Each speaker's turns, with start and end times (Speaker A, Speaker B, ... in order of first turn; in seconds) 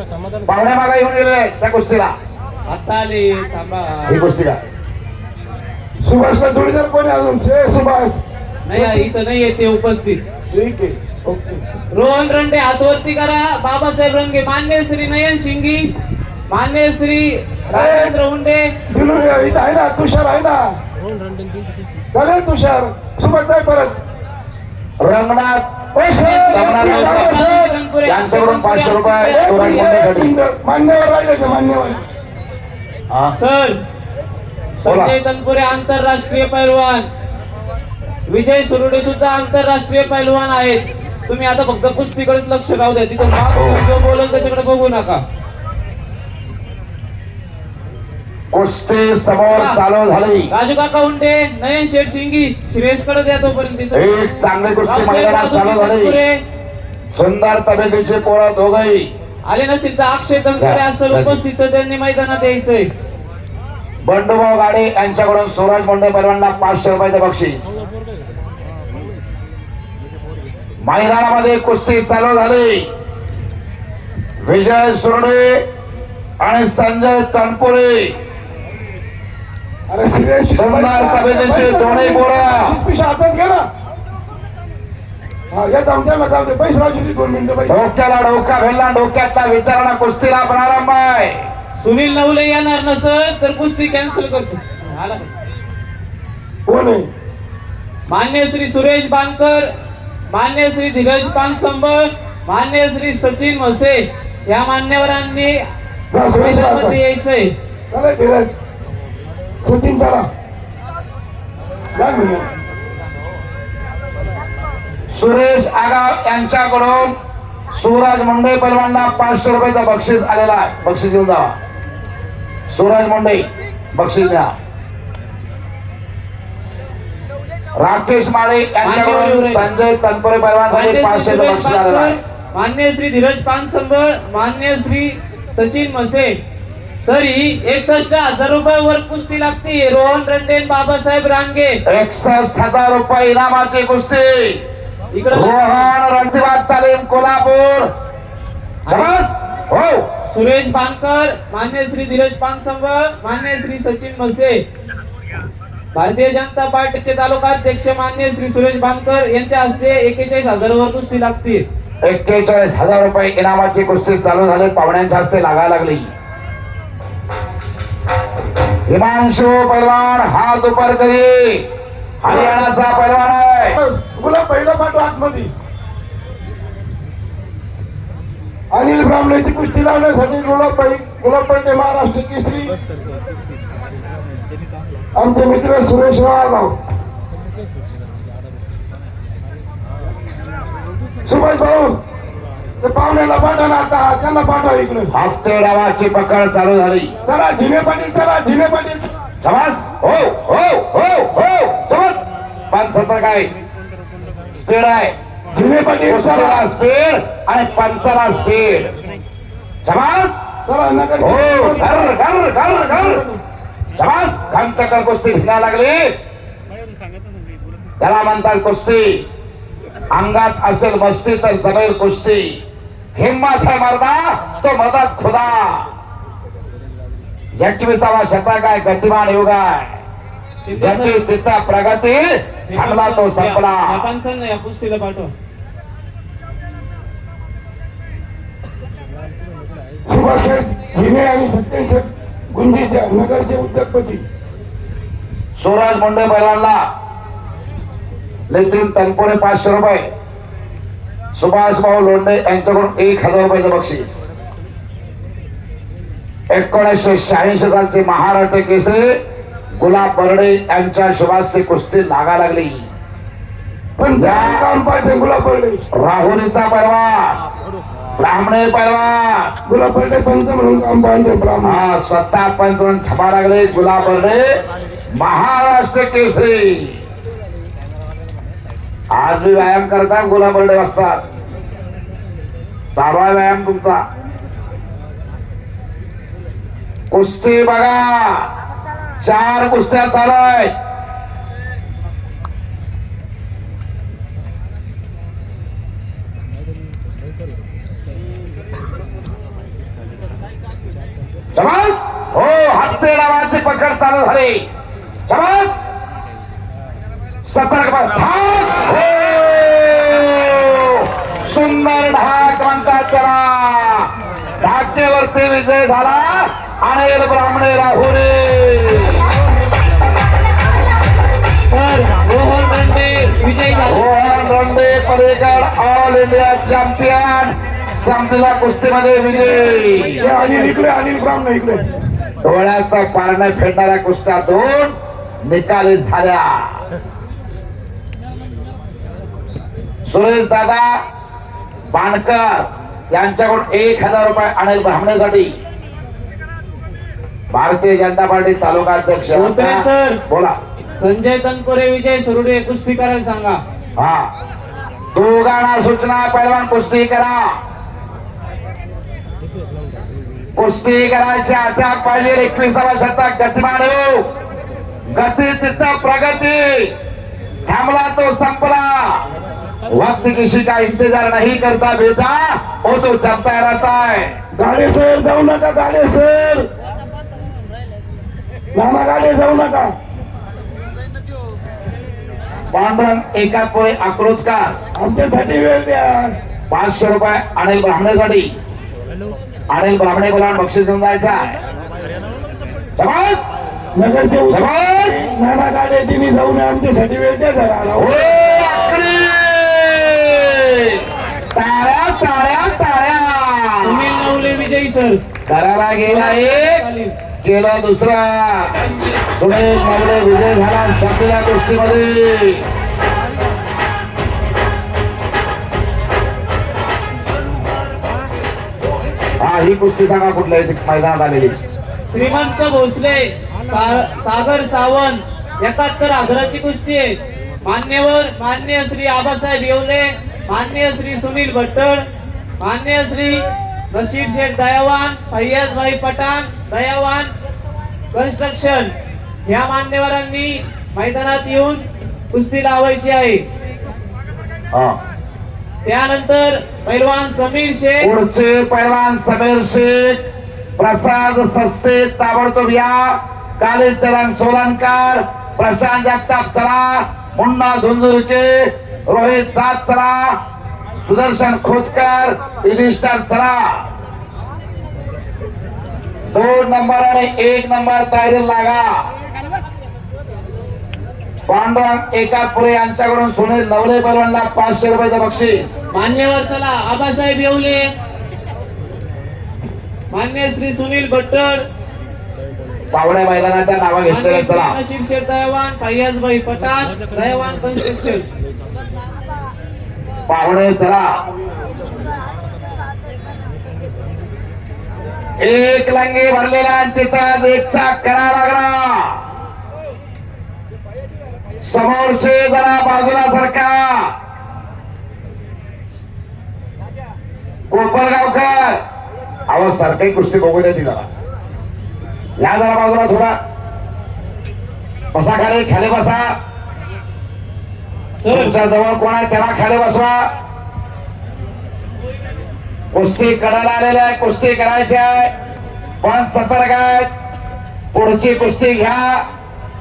Speaker A: 0.5-2.1, 4.1-4.6, 25.0-25.9, 26.5-27.4, 28.0-30.3, 34.8-35.1, 43.5-43.8, 48.5-50.5, 53.9-56.2, 57.1-59.1, 60.6-61.4, 64.0-67.7, 70.8-72.9, 74.4-75.6, 76.4-78.1, 80.5-82.8, 87.7-91.5, 115.1-117.1, 117.7-121.5, 122.7-124.5, 127.8-132.2, 141.9-144.6, 145.3-147.9, 148.9-150.1, 162.0-166.1, 168.8-171.6, 172.2-173.8, 195.1-197.1, 199.4-203.5, 204.5-205.1, 206.1-208.9, 209.8-210.4, 211.2-213.2, 213.9-216.0, 218.0-219.2, 220.1-222.6, 223.1-225.9, 227.6-230.0, 230.8-233.9, 245.6-246.8, 248.5-250.1, 251.3-254.2, 256.5-259.1, 259.8-262.9, 264.2-264.6, 265.9-267.4, 268.2-269.5, 271.6-274.6, 275.1-277.0, 279.1-281.2, 282.9-284.0, 287.1-288.5, 289.2-290.7, 301.5-304.6, 305.3-305.8, 307.4-314.1, 314.6-319.2, 323.9-330.2, 332.4-336.7, 340.1-340.9, 341.9-345.5, 347.5-350.5, 354.0-354.3, 355.1-357.4, 360.6-364.2, 365.1-366.9, 367.6-369.2, 369.9-374.3, 382.7-384.8, 386.7-388.5, 389.7-391.5, 393.0-393.5, 394.5-395.3, 398.0-401.0, 401.5-404.2, 405.5-406.8, 407.4-408.7, 409.3-412.6, 419.4-421.6, 444.7-445.0, 448.0-450.2, 450.8-460.4, 460.9-463.8, 466.3-469.0, 471.5-475.8, 482.9-484.7, 490.3-491.2, 495.4-499.2, 501.6-503.9, 507.7-508.8, 509.5-511.1, 512.4-513.3, 515.1-516.3, 518.3-520.2, 522.9-525.3, 526.0-527.1, 527.9-529.2
Speaker B: 2.7-4.2, 8.7-10.2, 11.9-15.9, 16.5-18.7, 26.1-30.1, 33.3-33.8, 34.8-37.1, 38.3-45.2, 49.5-49.8, 50.5-54.1, 54.9-56.4, 59.5-62.9, 91.8-95.3, 98.1-99.7, 100.3-105.6, 106.3-107.5, 128.8-129.7, 130.7-136.3, 137.0-141.8, 145.1-145.9, 148.9-149.1, 150.2-154.6, 155.9-161.6, 230.6-231.3, 232.7-235.3, 321.7-324.1, 349.3-350.2, 350.9-353.6, 403.8-405.2, 406.0-407.1, 422.1-432.0, 432.6-437.3, 438.1-438.9, 439.5-443.4, 445.9-448.1, 475.9-477.9, 480.1-481.6, 484.1-488.2, 518.2-518.5
Speaker C: 6.0-8.2, 8.7-9.1, 10.5-11.6, 17.7-18.1, 18.9-20.6, 22.1-24.0, 26.0-27.7, 29.3-32.0, 79.9-83.7, 85.5-87.8, 96.7-97.1, 106.1-107.0, 107.9-108.5, 109.6-110.2, 111.9-112.5, 172.2-172.8, 173.8-175.5, 178.7-182.8, 185.2-186.7, 191.2-192.0, 192.8-195.1, 197.2-199.1, 205.5-206.6, 210.7-213.4, 240.1-244.2, 264.0-265.8, 269.6-271.8, 330.2-331.9, 374.5-376.6, 378.7-379.9, 384.9-386.3, 393.9-398.1